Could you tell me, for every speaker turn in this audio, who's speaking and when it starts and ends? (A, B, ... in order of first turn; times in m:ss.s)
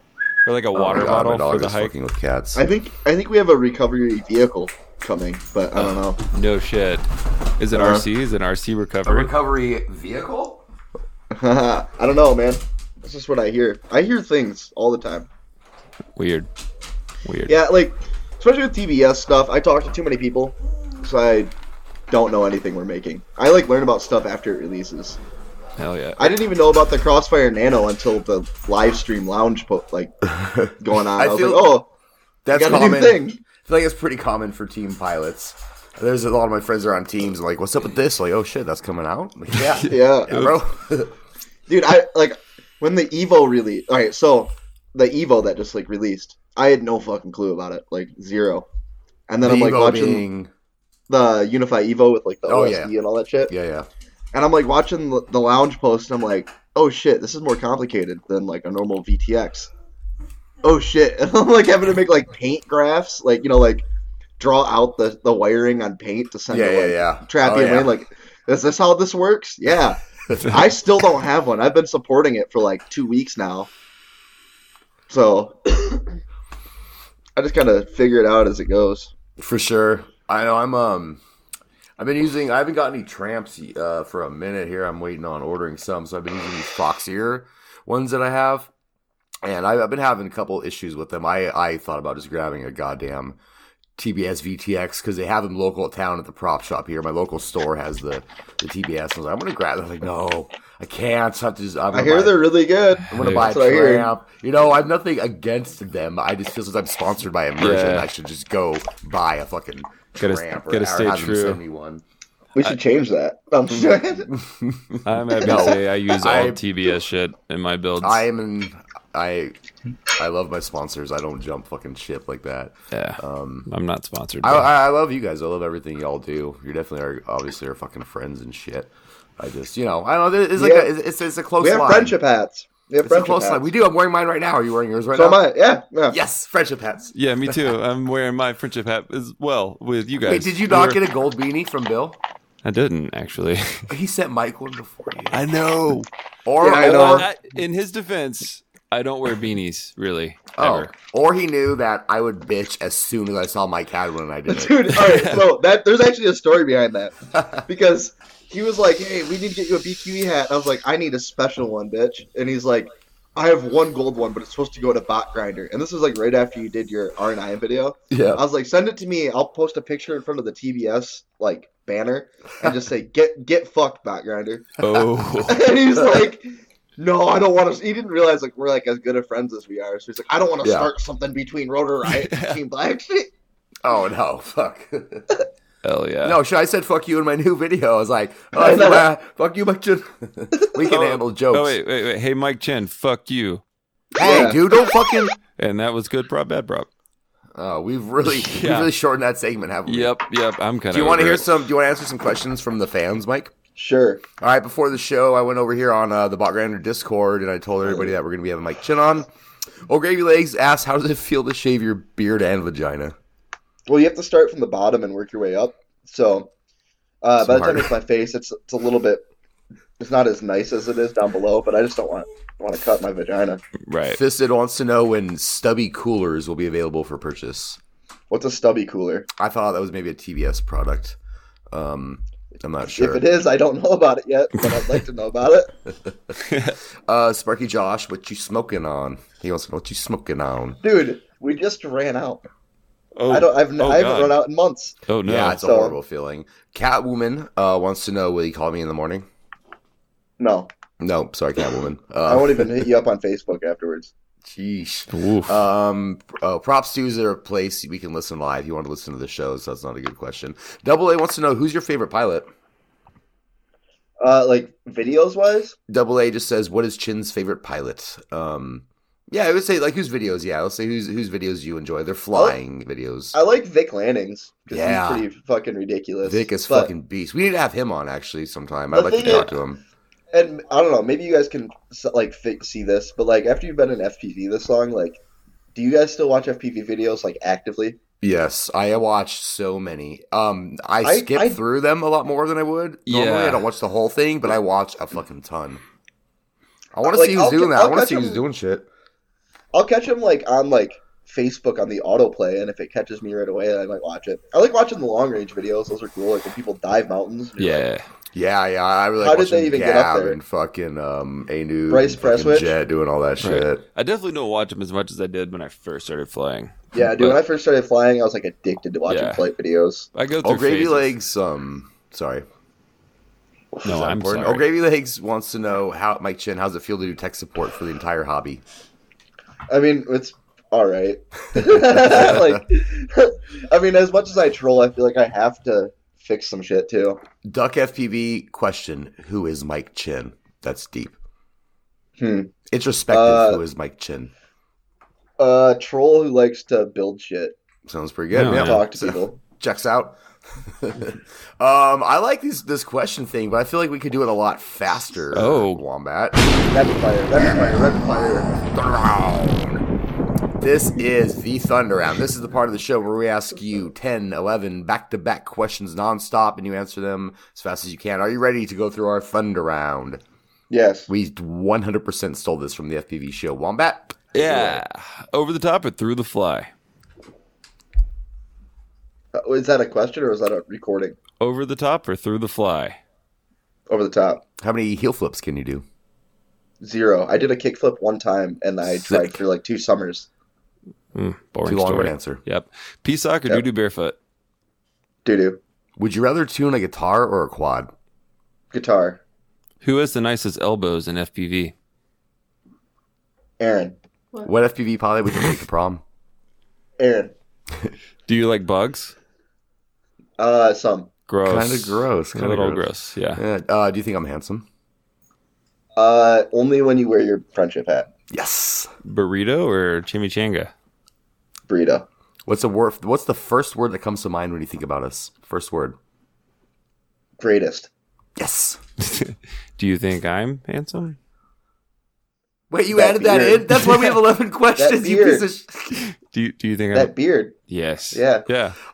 0:00.4-0:01.9 A
0:00.7-0:02.6 B
0:02.6-0:06.2 C
0:05.8-0:09.3 A
0:07.7-0:08.0 C
0:09.0-0:10.6 B
0:11.3-0:15.3 C
0:16.2-0:16.5 A
0:17.2-0:17.6 A
0:17.5-0:21.5 C
0:22.1-0:25.2 C
0:25.8-0:26.3 A
0:26.2-0:31.9 C
0:31.2-0:31.8 B
0:32.4-0:41.1 B
0:32.5-0:33.4 C
0:39.6-0:40.6 A
0:39.8-0:40.5 C
0:41.7-0:48.7 C
0:49.3-0:50.2 C
0:49.4-0:50.5 B
0:51.1-0:53.5 C
0:52.5-0:52.9 B
0:53.5-0:53.9 B
0:54.3-0:59.7 C
1:00.6-1:03.9 C
1:04.4-1:13.7 C
1:06.5-1:08.0 B
1:15.1-1:16.1 C
1:17.4-1:19.1 C
1:19.4-1:21.2 B
1:22.0-1:28.7 B
1:29.4-1:33.4 B
1:34.0-1:42.5 B
1:41.9-1:44.1 C
1:43.0-1:52.0 B
1:43.2-1:43.5 A
1:47.6-1:48.1 A
1:50.2-1:51.6 A
1:52.6-1:54.4 C
1:54.4-1:56.6 B
1:55.0-1:58.2 A
1:55.4-1:55.8 C
1:58.0-1:59.6 B
2:00.2-2:03.7 B
2:02.9-2:04.7 A
2:04.4-2:12.2 B
2:10.6-2:10.9 C
2:11.6-2:13.7 C
2:13.0-2:15.4 B
2:15.1-2:16.2 C
2:16.1-2:17.7 B
2:17.1-2:21.0 A
2:20.2-2:22.2 B
2:22.6-2:23.8 A
2:23.9-2:25.4 B
2:25.3-2:26.1 A
2:26.4-2:27.3 B
2:26.6-2:27.3 C
2:26.7-2:30.9 A
2:30.6-2:34.8 B
2:34.5-2:54.8 C
2:34.9-2:35.5 A
2:48.1-2:48.4 B
2:54.8-2:55.7 A
2:55.5-3:03.3 C
3:00.6-3:00.9 B
3:02.1-3:02.6 A
3:03.8-3:05.3 B
3:05.8-3:06.4 A
3:06.2-3:11.8 B
3:08.6-3:09.1 C
3:10.9-3:13.6 A
3:14.2-3:15.4 B
3:14.2-3:14.6 C
3:15.6-3:16.9 A
3:17.6-3:20.1 B
3:18.2-3:18.9 A
3:19.9-3:21.5 A
3:20.9-3:23.5 B
3:23.8-3:24.2 C
3:24.4-3:29.3 B
3:27.9-3:28.1 C
3:29.9-3:33.2 B
3:33.9-3:36.5 C
3:37.2-3:39.2 C
3:37.4-3:37.9 B
3:40.0-3:43.6 C
3:43.9-3:44.2 A
3:44.0-3:47.8 B
3:48.3-3:49.3 C
3:49.4-3:51.2 B
3:51.7-3:53.3 B
3:52.9-3:55.7 C
3:56.4-3:56.8 A
3:57.1-4:00.8 B
4:00.8-4:02.4 C
4:03.2-4:04.4 A
4:03.3-4:06.0 C
4:05.1-4:05.6 A
4:05.2-4:09.2 B
4:10.4-4:10.7 C
4:11.0-4:12.9 B
4:12.3-4:14.1 C
4:14.4-4:22.5 B
4:15.1-4:15.6 A
4:24.2-4:25.8 C
4:25.9-4:33.4 B
4:32.3-4:32.6 C
4:33.3-4:36.9 C
4:34.7-4:35.3 B
4:36.2-4:39.8 B
4:38.9-4:39.5 C
4:39.2-4:39.6 A
4:40.3-4:45.2 C
4:45.7-4:48.0 C
4:48.2-4:55.8 B
4:51.0-4:51.6 C
4:53.1-4:53.6 A
4:56.9-4:58.9 B
4:57.1-4:58.4 C
4:59.7-5:07.9 C
5:07.6-5:08.1 A
5:08.3-5:13.8 B
5:09.2-5:10.4 C
5:11.9-5:12.8 C
5:13.4-5:17.4 A
5:16.9-5:20.1 C
5:19.1-5:19.4 A
5:20.1-5:21.2 A
5:20.4-5:22.5 B
5:23.8-5:24.7 A
5:23.9-5:28.6 B
5:29.7-5:37.2 C
5:31.6-5:32.6 B
5:37.4-5:41.2 B
5:42.2-5:42.5 C
5:42.7-5:44.3 B
5:43.1-5:43.6 C
5:45.4-5:47.6 C
5:47.8-5:56.4 B
5:48.3-5:48.9 A
5:48.6-5:49.4 C
5:55.3-5:55.8 A
5:56.7-5:58.5 C
5:58.6-5:59.8 B
6:00.6-6:10.2 B
6:10.7-6:11.1 C
6:11.1-6:14.8 B
6:14.3-6:16.7 A
6:19.3-6:21.2 C
6:21.4-6:23.0 A
6:23.9-6:24.4 C
6:24.6-6:25.8 B
6:26.8-6:30.3 C
6:31.1-6:34.2 A
6:31.6-6:32.4 B
6:35.2-6:35.6 C
6:36.0-6:37.9 B
6:38.7-6:39.2 C
6:39.8-6:41.7 A
6:43.6-6:44.0 C
6:44.4-6:46.0 B
6:47.0-6:47.3 C
6:48.3-6:49.2 A
6:50.4-6:51.1 C
6:51.3-6:53.4 A
6:51.4-6:54.7 B
6:56.0-6:58.1 C
6:58.3-6:58.9 B
6:59.0-7:00.7 A
7:01.7-7:02.1 C
7:02.5-7:06.0 B
7:07.4-7:07.9 C
7:08.4-7:08.8 B
7:09.0-7:11.2 A
7:12.7-7:16.0 B
7:12.9-7:13.9 C
7:14.8-7:15.5 C
7:16.0-7:17.1 A
7:16.9-7:17.6 C
7:17.7-7:18.8 A
7:18.1-7:18.5 C